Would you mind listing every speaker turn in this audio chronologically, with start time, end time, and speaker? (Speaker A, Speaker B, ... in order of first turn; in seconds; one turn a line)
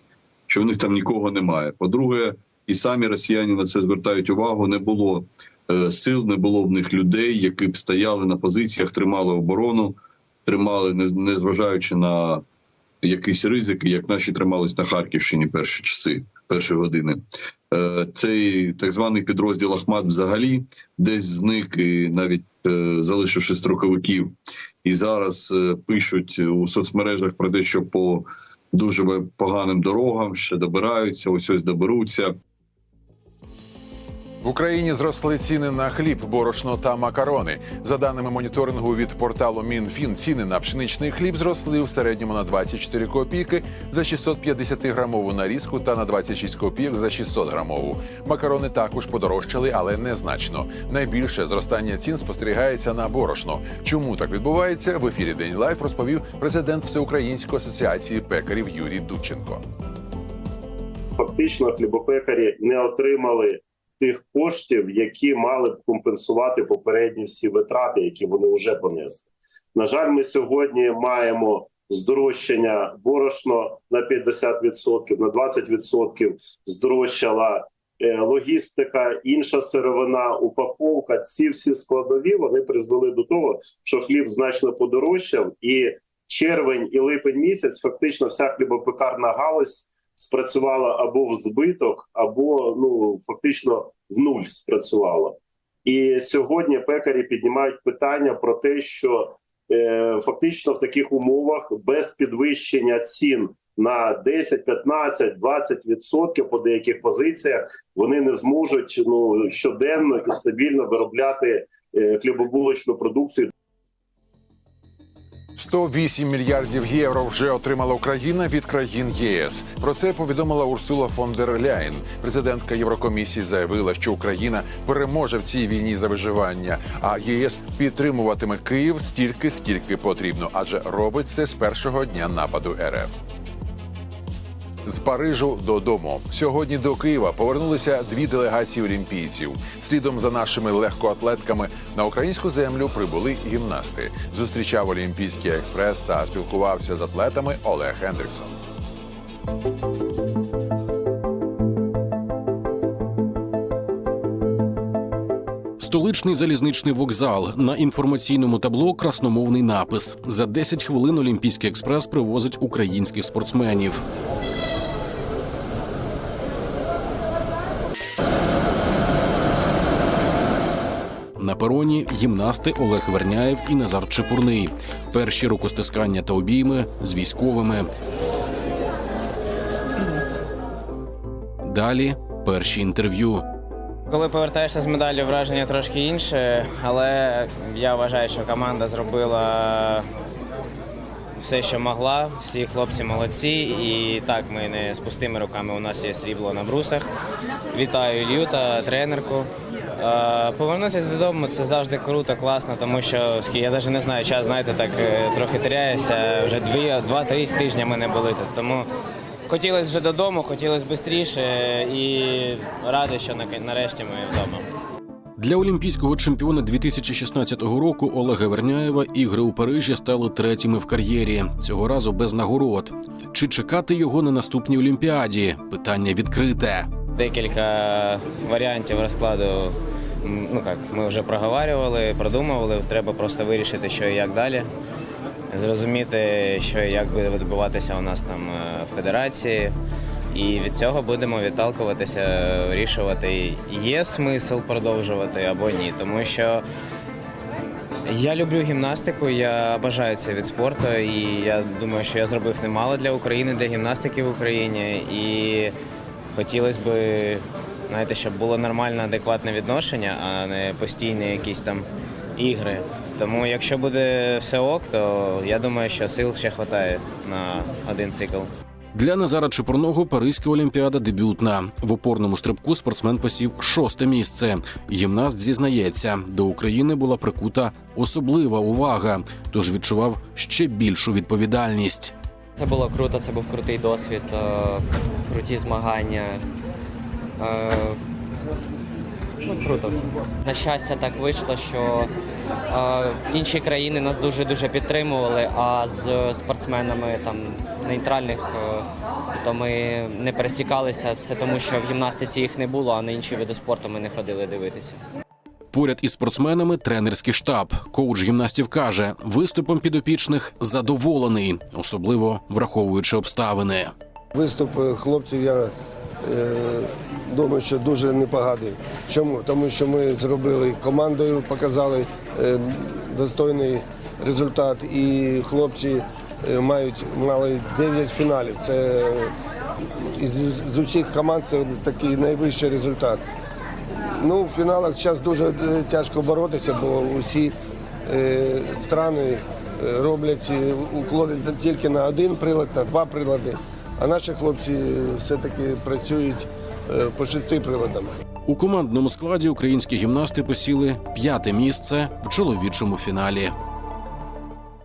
Speaker A: 0.5-12.4
Speaker A: 13.0-17.2
Speaker A: 17.7-32.3
Speaker B: 34.4-59.6
Speaker C: 61.2-113.5
Speaker B: 115.6-133.1
Speaker B: 134.8-148.6
Speaker D: 155.8-164.0
Speaker D: 171.4-177.9
Speaker D: 181.6-183.5
Speaker E: 184.1-190.1
Speaker E: 191.4-197.1
Speaker E: 197.7-208.9
Speaker E: 209.5-214.7
Speaker D: 215.4-226.9
Speaker E: 227.2-234.7
Speaker E: 235.5-239.8
Speaker E: 240.3-246.6
Speaker E: 248.1-255.7
Speaker E: 256.3-261.9
Speaker E: 262.4-268.5
Speaker D: 268.9-282.1
Speaker F: 282.6-286.4
Speaker F: 287.4-288.0
Speaker F: 289.5-292.1
Speaker F: 292.7-298.9
Speaker F: 299.4-305.0
Speaker D: 305.7-313.9
Speaker G: 314.4-315.7
Speaker G: 316.2-329.3
Speaker G: 330.0-333.2
Speaker G: 334.1-337.6
Speaker G: 338.1-348.1
Speaker D: 348.5-353.6